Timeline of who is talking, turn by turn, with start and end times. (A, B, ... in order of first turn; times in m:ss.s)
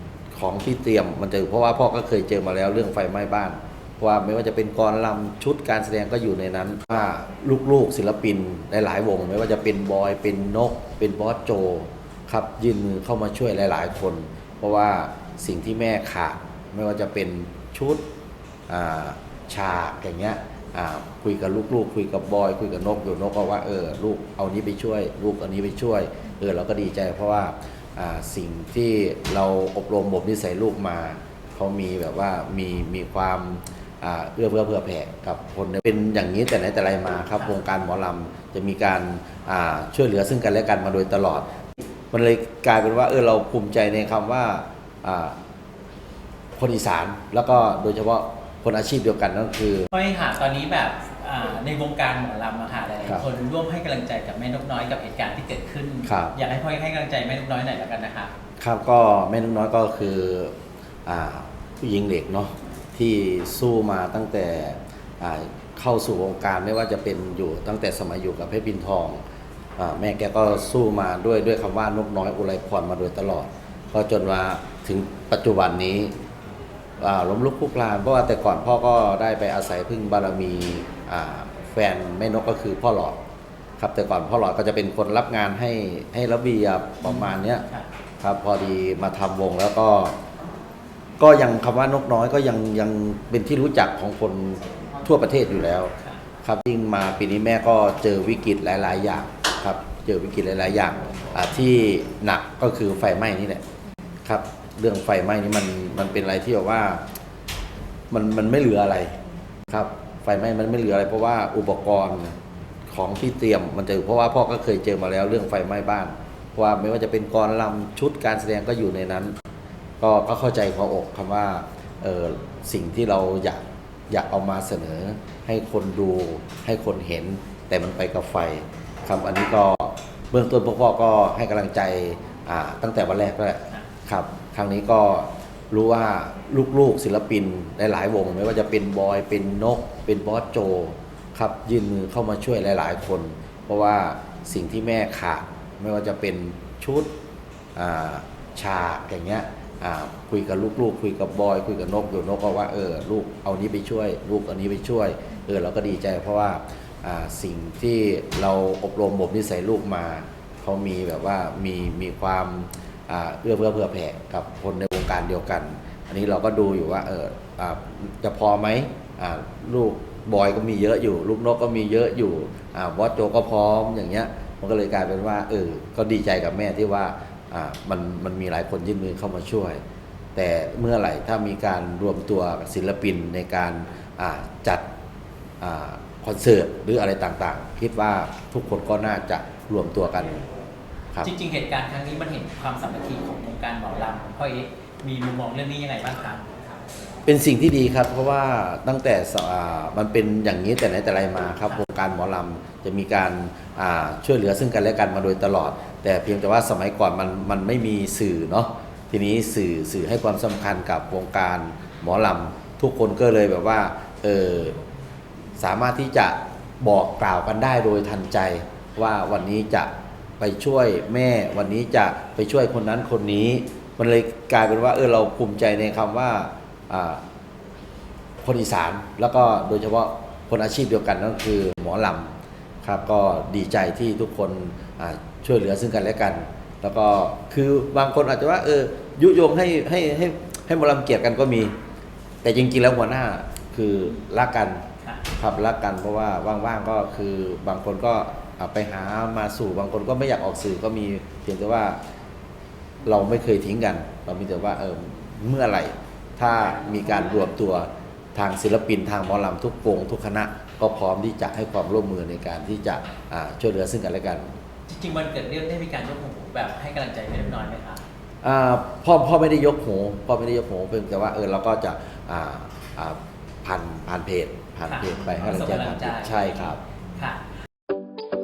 0:00.3-0:18.0 A
0:18.7-0:41.5 A
0:42.1-0:45.4 A
0:46.6-0:49.9 A
0:49.9-0:58.3 B
0:56.1-0:56.4 A
0:58.6-1:09.2 A
1:09.8-1:16.1 A
1:17.0-1:23.2 A
1:23.8-1:27.6 A
1:27.0-1:27.9 B
1:28.2-1:30.2 A
1:31.2-1:43.6 A
1:44.3-1:47.0 A
1:48.1-1:52.4 A
1:52.9-1:59.4 A
2:00.0-2:27.1 A
2:27.8-2:59.8 A
3:00.4-3:04.9 A
3:05.6-3:10.4 A
3:11.2-3:16.5 B
3:17.3-3:34.8 A
3:35.6-3:47.2 A
3:48.4-4:01.7 A
4:02.4-4:12.0 A
4:05.0-4:05.3 B
4:13.0-4:24.6 A
4:24.9-4:28.0 B
4:28.4-4:36.8 A
4:34.9-4:37.5 B